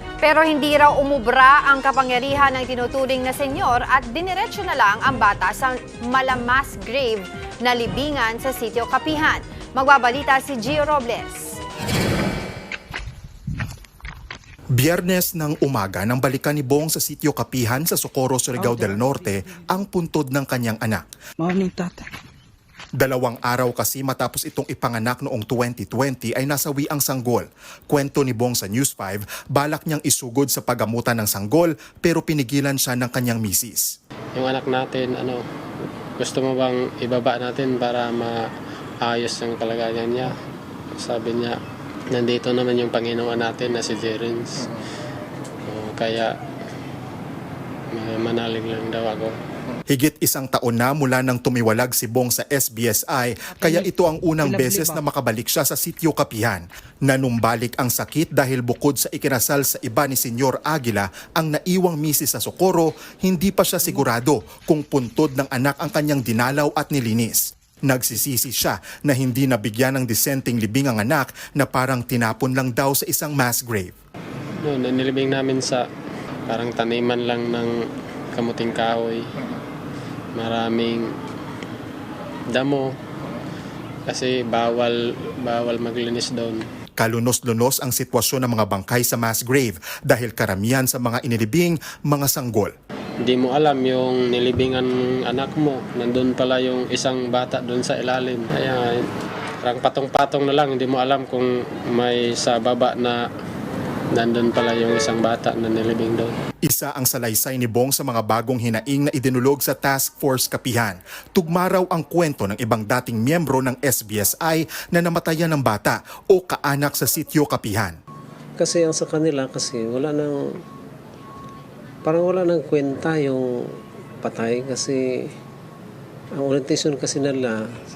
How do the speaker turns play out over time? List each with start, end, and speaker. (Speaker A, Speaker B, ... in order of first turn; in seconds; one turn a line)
Speaker A: 0.2-11.6
Speaker B: 14.8-21.1
Speaker C: 18.6-19.2
Speaker C: 21.4-22.1
Speaker B: 22.9-34.0
Speaker D: 34.3-35.4
Speaker D: 36.2-38.5
Speaker D: 39.0-40.3
Speaker D: 41.0-41.6
Speaker D: 42.1-44.8
Speaker D: 45.6-46.3
Speaker D: 47.9-49.4
Speaker B: 49.9-73.9
Speaker C: 53.6-55.0
Speaker D: 74.6-75.9
Speaker D: 76.5-79.2
Speaker D: 80.3-81.1
Speaker D: 82.5-82.9
Speaker D: 84.1-86.7
Speaker B: 87.0-92.7
Speaker D: 93.2-99.1
Speaker D: 99.6-103.3
Speaker D: 104.1-106.3
Speaker B: 106.6-118.0
Speaker E: 118.6-120.5
Speaker E: 122.0-125.3
Speaker E: 126.3-127.7